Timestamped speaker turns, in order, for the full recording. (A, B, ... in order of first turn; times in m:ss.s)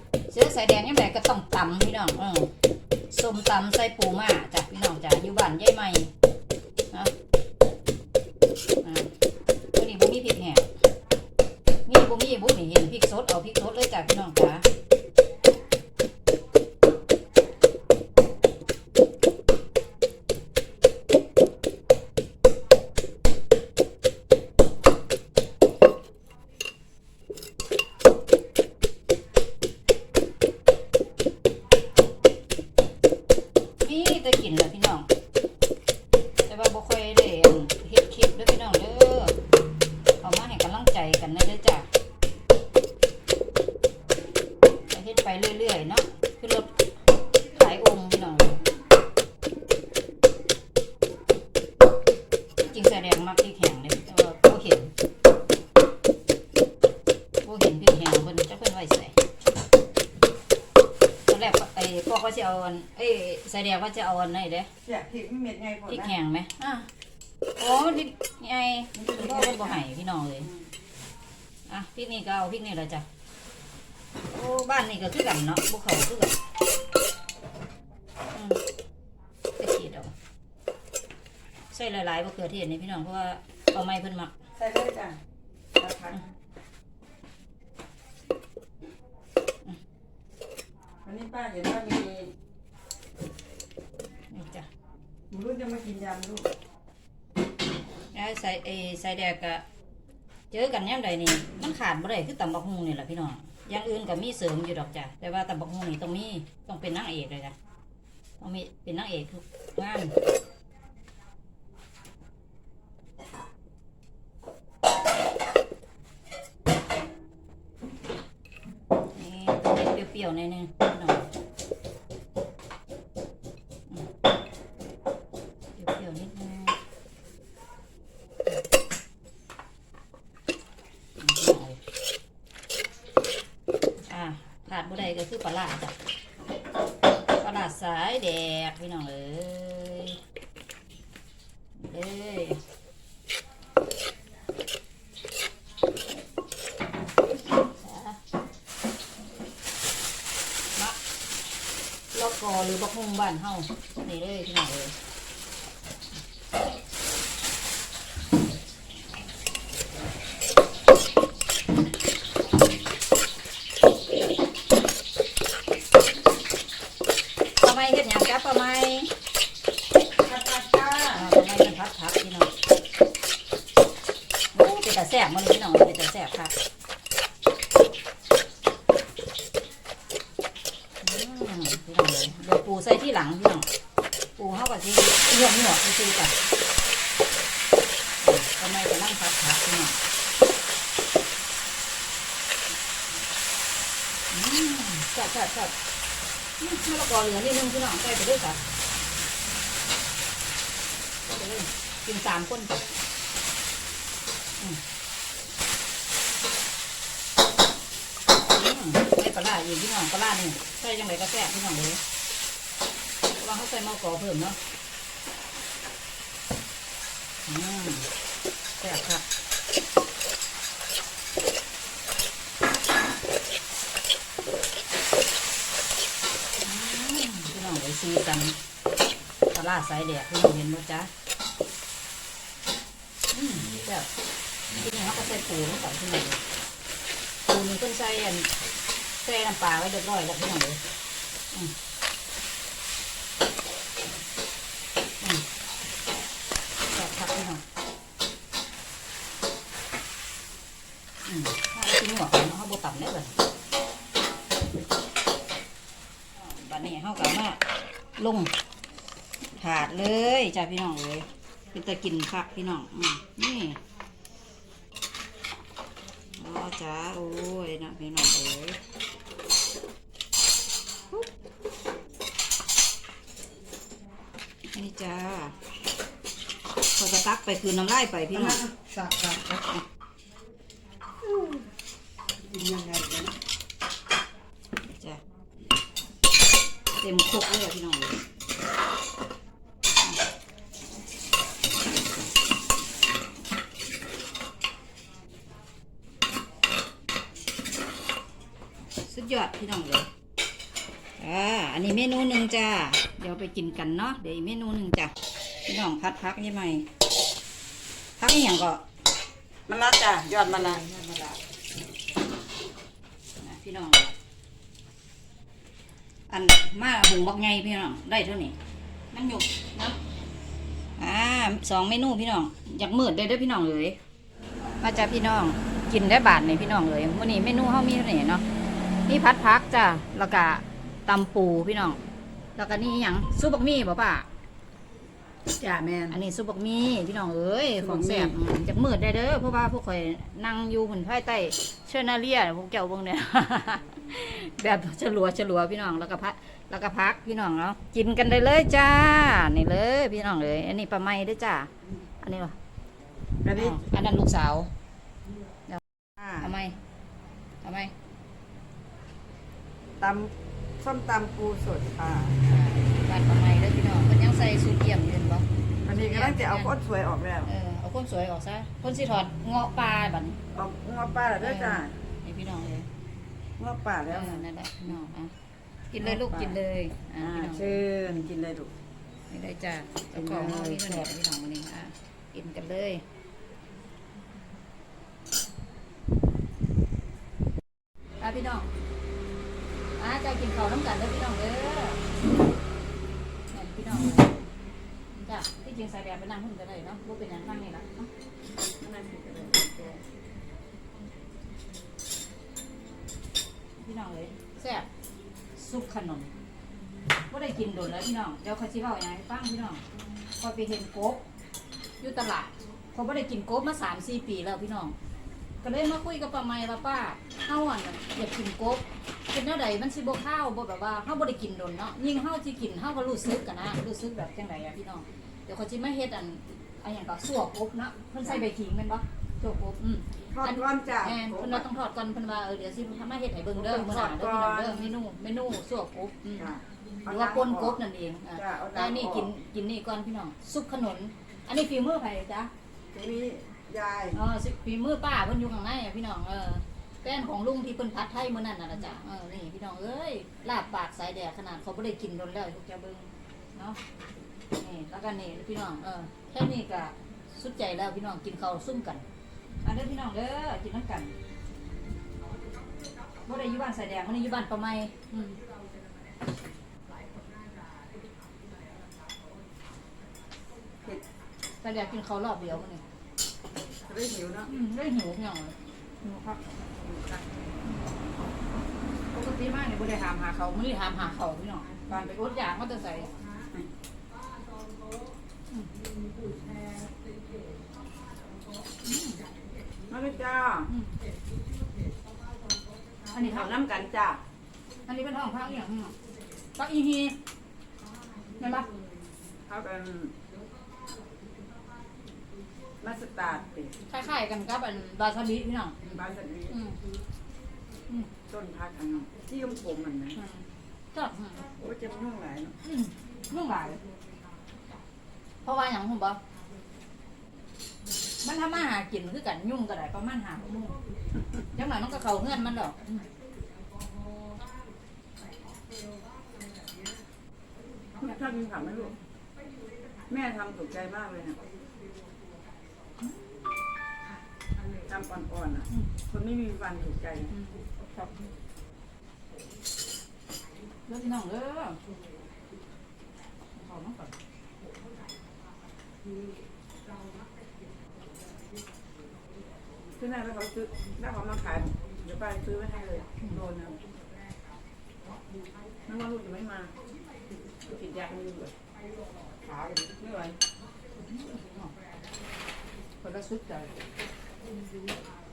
0:00.3-0:02.5 A
0:03.1-0:06.1 A
0:08.8-0:09.1 A
0:09.7-0:10.7 A
0:11.8-0:14.6 A
0:33.8-0:35.1 A
0:36.5-0:39.4 A
0:40.2-0:41.9 A
0:44.9-0:46.7 A
0:47.5-0:48.6 A
0:52.6-0:54.9 A
0:57.4-0:59.1 A
1:01.3-1:04.7 A
1:04.8-1:06.1 B
1:05.9-1:06.9 A
1:07.6-1:10.5 A
1:08.9-1:09.8 B
1:11.7-1:13.0 A
1:14.3-1:16.4 A
1:18.3-1:18.6 A
1:19.6-1:20.1 A
1:21.7-1:24.3 A
1:24.6-1:25.2 B
1:25.8-1:26.2 B
1:31.0-1:32.3 B
1:34.3-1:34.7 A
1:35.3-1:36.5 B
1:38.1-1:39.6 A
1:40.5-1:47.5 A
1:48.4-1:50.1 A
1:59.1-2:01.3 A
2:05.8-2:06.8 A
2:11.2-2:11.8 A
2:14.0-2:15.9 A
2:17.4-2:20.2 A
2:21.8-2:22.6 A
2:27.7-2:28.2 A
2:32.1-2:34.9 A
2:47.6-2:49.1 A
2:50.2-2:51.2 B
2:51.1-2:52.5 A
2:54.5-2:56.5 A
3:01.0-3:03.7 A
3:04.4-3:06.4 A
3:08.2-3:10.0 A
3:14.3-3:15.7 A
3:16.6-3:18.6 A
3:21.3-3:22.8 A
3:28.3-3:32.0 A
3:33.4-3:34.6 A
3:37.4-3:38.1 A
3:38.8-3:39.2 A
3:46.6-3:48.6 A
3:49.5-3:51.1 A
3:53.3-3:54.1 A
3:54.8-3:56.4 A
3:57.4-3:58.5 A
3:59.2-4:00.8 A
4:06.9-4:07.6 A
4:11.2-4:13.3 A
4:16.3-4:17.6 A
4:18.2-4:18.5 A
4:19.6-4:23.8 A
4:26.3-4:28.8 A
4:34.7-4:35.6 A
4:37.0-4:38.6 A
4:38.3-4:39.7 B
4:41.2-4:41.6 B
4:42.5-4:43.3 B
4:47.0-4:48.2 A
4:59.0-5:00.1 A
5:01.2-5:05.1 A
5:05.7-5:06.8 A
5:08.2-5:08.8 A
5:09.7-5:10.8 B
5:10.4-5:11.4 A
5:13.4-5:14.1 A
5:16.3-5:18.6 A
5:19.1-5:20.0 A
5:21.0-5:24.0 A
5:24.8-5:28.4 A
5:29.1-5:32.0 A
5:32.6-5:34.3 A
5:35.6-5:36.2 B
5:36.1-5:52.6 A
5:37.8-5:38.4 B
5:53.4-5:53.8 B
5:53.6-5:54.7 A
5:56.2-5:56.5 B
5:56.4-5:56.8 A
5:57.6-5:57.9 A
6:00.0-6:02.4 B
6:02.4-6:06.7 A
6:05.8-6:07.5 B
6:07.4-6:10.4 A
6:10.5-6:11.9 B
6:11.4-6:12.9 A
6:13.6-6:14.5 B
6:14.1-6:15.3 A
6:15.9-6:17.7 A
6:16.0-6:16.6 B
6:17.2-6:18.7 B
6:19.3-6:23.0 A
6:20.1-6:21.1 B
6:28.2-6:28.7 A
6:30.0-6:32.0 A
6:33.5-6:34.4 A
6:35.2-6:38.1 A
6:38.8-6:40.0 B
6:43.8-6:44.9 A
6:45.6-6:46.3 A
6:47.3-6:49.8 A
6:50.4-6:51.2 A
6:52.0-6:54.9 A
6:55.6-7:16.4 A
7:10.3-7:11.7 B
7:13.5-7:14.9 B
7:16.4-7:17.8 B
7:17.0-7:22.5 A
7:18.3-7:19.3 B
7:22.9-7:24.2 B
7:24.1-7:33.8 A
7:34.6-7:39.0 A
7:39.6-7:41.1 A
7:43.2-7:45.4 A
7:51.6-7:52.8 A
7:53.8-7:54.5 B
7:54.5-7:56.5 A
7:56.8-7:57.2 B
7:59.1-8:03.1 A
8:08.8-8:09.3 A
8:09.9-8:10.7 B
8:10.7-8:10.9 A
8:13.1-8:13.5 A
8:13.2-8:14.2 B
8:14.8-8:15.9 A
8:16.6-8:17.2 A
8:18.4-8:18.7 A
8:19.4-8:20.1 B
8:22.8-8:23.7 B
8:23.9-8:25.8 A
8:25.8-8:26.5 B
8:26.5-8:26.8 A
8:28.3-8:30.2 B
8:30.1-8:31.5 A
8:31.6-8:32.6 B
8:32.6-8:33.8 A
8:35.4-8:36.2 A
8:38.2-8:40.8 A
8:41.5-8:43.0 A
8:48.0-8:49.0 B
8:50.1-8:51.4 B
8:53.0-8:53.4 A
8:54.8-8:57.3 B
8:57.3-8:58.2 A
9:00.9-9:01.8 A
9:03.5-9:04.1 A
9:10.0-9:13.8 B
9:15.9-9:16.7 B
9:17.6-9:18.5 B
9:19.4-9:20.4 B
9:21.0-9:21.7 A
9:23.0-9:23.8 A